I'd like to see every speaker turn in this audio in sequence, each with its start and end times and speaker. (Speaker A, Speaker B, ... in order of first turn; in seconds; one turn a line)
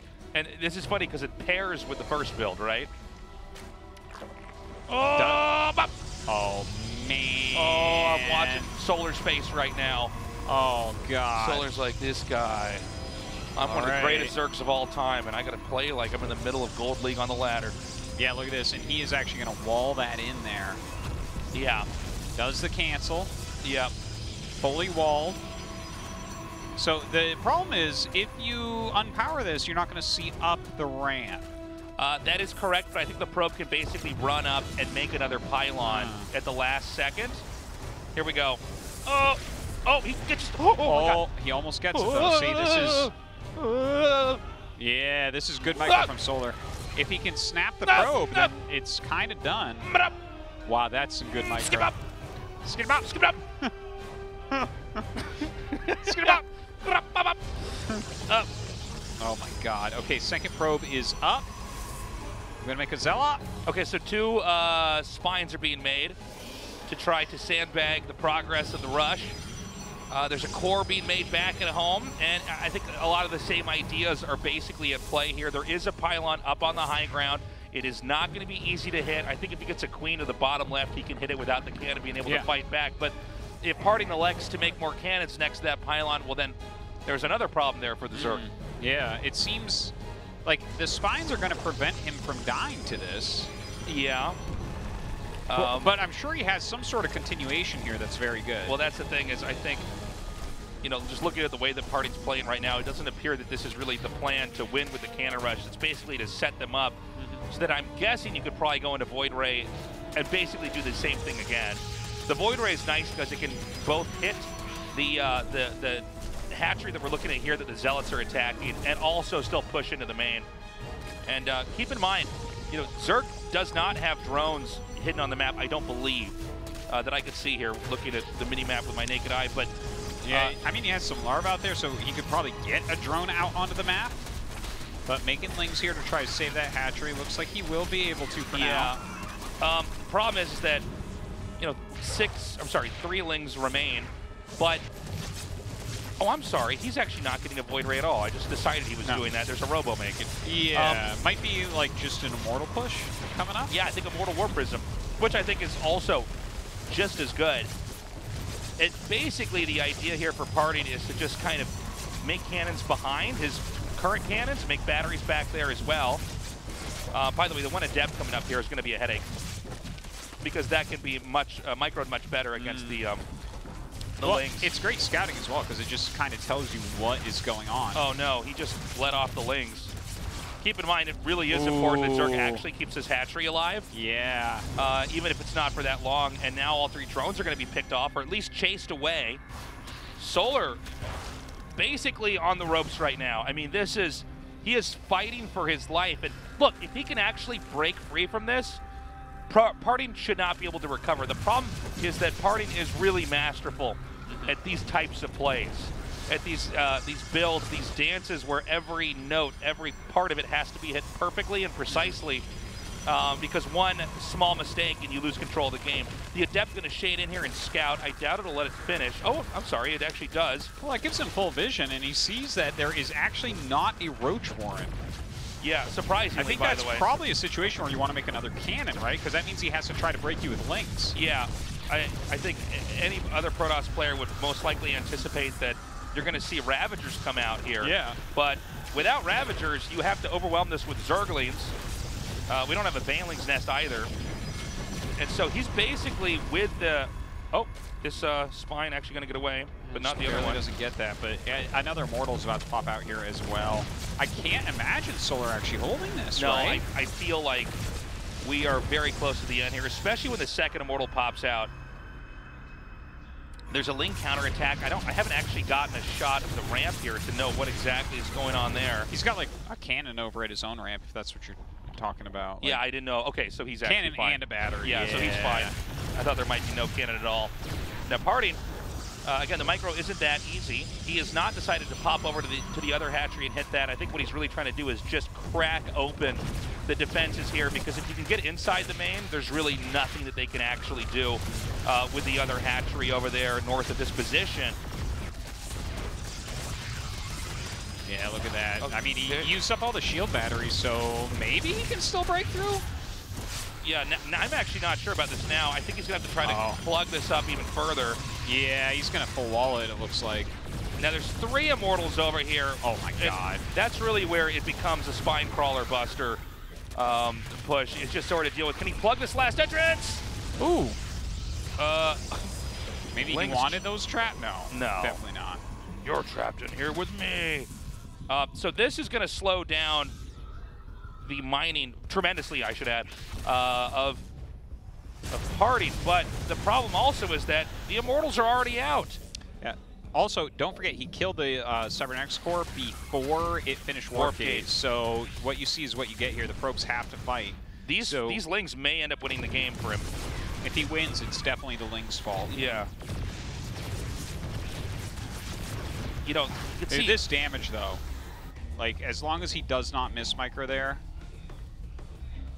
Speaker A: 0.3-2.9
Speaker A: 4.9-5.9
Speaker B: 5.2-5.6
Speaker B: 6.3-8.7
Speaker A: 7.5-10.2
Speaker B: 10.5-11.7
Speaker A: 11.3-12.9
Speaker A: 13.6-17.8
Speaker B: 13.6-14.3
Speaker B: 18.2-20.8
Speaker A: 21.5-21.9
Speaker B: 22.4-23.3
Speaker A: 23.6-23.9
Speaker B: 24.6-25.4
Speaker B: 26.8-31.4
Speaker A: 32.0-37.5
Speaker B: 35.8-36.3
Speaker A: 38.1-41.2
Speaker B: 40.8-43.1
Speaker A: 41.9-44.4
Speaker B: 44.8-49.9
Speaker A: 45.7-46.1
Speaker A: 47.8-48.5
Speaker A: 49.8-50.1
Speaker B: 50.7-51.9
Speaker A: 51.6-52.0
Speaker B: 52.6-53.7
Speaker A: 53.1-53.4
Speaker B: 54.5-55.4
Speaker A: 55.6-57.6
Speaker B: 56.0-56.4
Speaker B: 59.2-61.5
Speaker B: 62.6-63.4
Speaker A: 63.7-66.2
Speaker A: 66.9-69.4
Speaker A: 70.1-88.4
Speaker B: 88.1-89.9
Speaker B: 90.5-93.5
Speaker A: 93.9-94.4
Speaker A: 95.5-96.0
Speaker B: 95.5-98.8
Speaker A: 98.7-99.9
Speaker A: 100.8-107.0
Speaker B: 107.2-107.5
Speaker A: 107.5-120.5
Speaker A: 121.2-129.7
Speaker B: 130.2-134.2
Speaker A: 130.3-130.6
Speaker B: 135.1-138.9
Speaker A: 138.5-139.0
Speaker A: 139.6-140.9
Speaker A: 141.6-144.9
Speaker A: 146.2-151.1
Speaker B: 150.4-153.7
Speaker A: 153.7-156.3
Speaker A: 156.9-157.7
Speaker A: 158.8-166.2
Speaker A: 167.1-169.3
Speaker A: 170.4-173.2
Speaker B: 172.6-173.0
Speaker A: 174.2-174.7
Speaker B: 174.2-178.0
Speaker A: 177.9-179.9
Speaker A: 180.6-183.9
Speaker B: 181.5-182.7
Speaker B: 183.9-184.7
Speaker A: 184.8-189.4
Speaker A: 190.2-190.8
Speaker A: 191.8-198.8
Speaker A: 199.5-212.5
Speaker B: 204.3-204.6
Speaker B: 211.9-212.2
Speaker A: 213.1-220.7
Speaker B: 220.8-225.0
Speaker A: 225.6-227.1
Speaker B: 226.3-231.2
Speaker A: 231.1-241.8
Speaker B: 237.8-238.2
Speaker A: 242.5-244.1
Speaker A: 245.2-250.6
Speaker B: 249.8-256.8
Speaker A: 256.4-257.8
Speaker A: 258.4-261.7
Speaker A: 263.7-269.1
Speaker B: 269.1-272.8
Speaker A: 272.6-277.5
Speaker B: 273.8-275.8
Speaker A: 278.1-278.6
Speaker A: 279.2-294.8
Speaker B: 298.1-302.8
Speaker A: 298.8-299.5
Speaker A: 303.8-308.2
Speaker B: 306.4-306.8
Speaker B: 308.4-310.6
Speaker A: 311.0-316.4
Speaker B: 312.8-313.6
Speaker A: 316.9-320.2
Speaker B: 320.6-321.0
Speaker A: 321.8-322.5
Speaker B: 323.1-325.6
Speaker A: 323.2-323.8
Speaker A: 324.7-325.2
Speaker A: 326.0-327.7
Speaker A: 328.3-330.1
Speaker A: 331.2-334.2
Speaker A: 335.3-339.2
Speaker B: 339.6-348.4
Speaker A: 344.1-344.7
Speaker A: 347.8-350.1
Speaker B: 350.6-352.6
Speaker A: 352.5-352.9
Speaker A: 356.2-357.2
Speaker B: 356.9-358.0
Speaker B: 358.8-361.0